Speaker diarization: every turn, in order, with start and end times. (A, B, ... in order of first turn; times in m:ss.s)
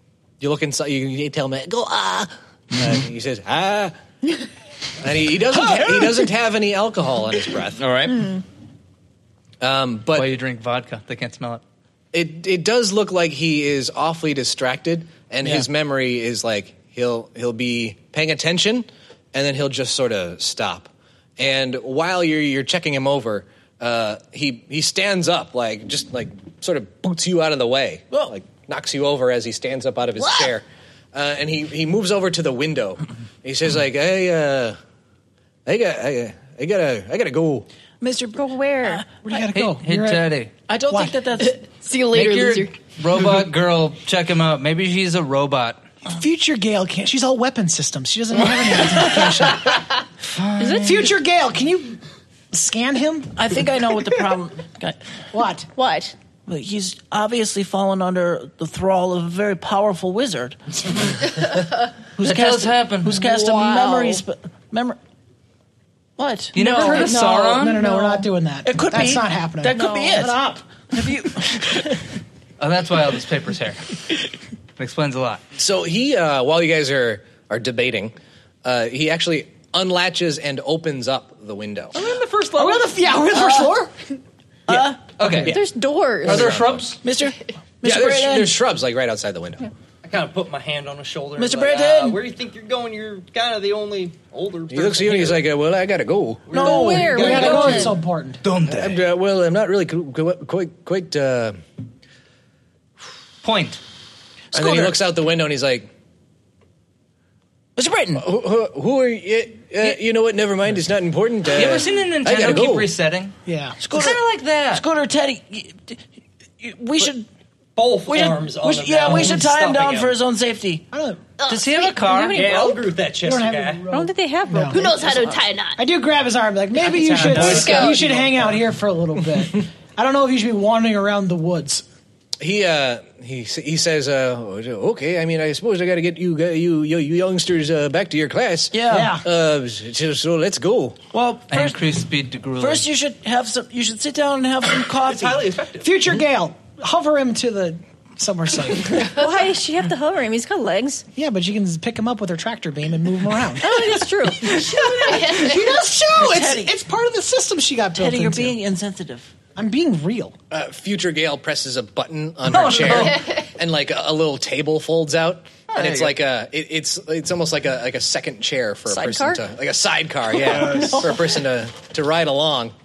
0:00.4-0:04.0 A
0:05.0-0:07.8 A
0:07.8-0:08.4 B
0:09.6-0:10.3 A
0:10.1-0:11.6 C
0:12.1-0:34.8 A
0:28.1-0:28.4 B
0:30.2-0:30.5 B
0:35.6-0:37.7 A
0:38.0-0:39.2 B
0:38.3-0:39.0 D
0:39.2-0:40.3 E
0:39.3-0:40.5 C
0:40.7-0:41.6 B
0:40.9-0:41.2 E
0:41.4-0:42.8 F
0:42.1-0:45.9 C
0:46.0-0:49.8 E
0:50.3-0:51.1 C
0:50.6-0:51.1 D
0:50.8-0:52.0 E
0:52.5-0:53.4 E
0:53.3-0:55.0 B
0:55.3-0:55.7 E
0:55.8-0:56.1 D
0:56.5-1:00.6 B
1:02.2-1:05.0 B
1:02.2-1:03.2 C
1:03.1-1:04.2 D
1:06.2-1:06.6 B
1:06.5-1:08.2 C
1:06.6-1:11.7 E
1:06.7-1:07.1 D
1:07.9-1:08.2 D
1:08.6-1:10.4 B
1:09.7-1:10.3 D
1:10.9-1:12.0 B
1:12.6-1:13.9 C
1:14.8-1:15.4 C
1:15.6-1:22.0 A
1:22.0-1:22.9 C
1:22.6-1:24.2 E
1:23.3-1:23.7 B
1:24.7-1:25.2 B
1:25.2-1:25.6 C
1:25.2-1:25.5 E
1:25.4-1:26.6 D
1:26.2-1:27.0 C
1:26.3-1:26.9 A
1:27.0-1:28.6 B
1:27.8-1:29.7 A
1:30.0-1:35.4 G
1:31.4-1:32.2 B
1:34.7-1:36.5 A
1:36.5-1:38.0 G
1:36.5-1:37.4 B
1:36.6-1:38.0 D
1:37.0-1:38.4 E
1:38.4-1:39.0 C
1:38.6-1:41.6 A
1:43.4-1:43.8 C
1:44.5-1:45.0 B
1:44.5-1:45.9 A
1:47.8-1:48.3 B
1:48.1-1:53.0 A
1:51.5-1:53.3 C
1:53.4-1:53.8 E
1:53.8-1:54.2 B
1:53.9-1:54.9 C
1:54.7-1:56.0 B
1:56.6-1:57.3 B
1:57.8-2:00.2 G
1:58.1-2:00.9 B
2:00.9-2:01.3 E
2:01.4-2:02.2 F
2:01.5-2:02.5 C
2:01.9-2:02.9 D
2:02.3-2:03.8 G
2:03.2-2:04.8 E
2:03.9-2:05.4 D
2:04.7-2:05.8 F
2:05.8-2:11.8 E
2:06.8-2:08.1 B
2:07.1-2:08.4 G
2:07.4-2:08.0 D
2:12.4-2:21.0 A
2:18.7-2:19.2 B
2:18.9-2:19.2 E
2:21.1-2:21.8 B
2:21.5-2:22.9 C
2:22.6-2:25.5 B
2:25.0-2:25.9 G
2:25.8-2:29.1 E
2:29.0-2:31.0 D
2:31.1-2:38.6 E
2:33.6-2:35.1 D
2:35.0-2:35.8 F
2:36.2-2:36.7 B
2:38.0-2:39.3 B
2:39.6-2:40.4 E
2:40.5-2:52.7 A
2:42.6-2:43.1 E
2:45.7-2:46.2 B
2:48.9-2:49.4 D
2:50.5-2:51.0 B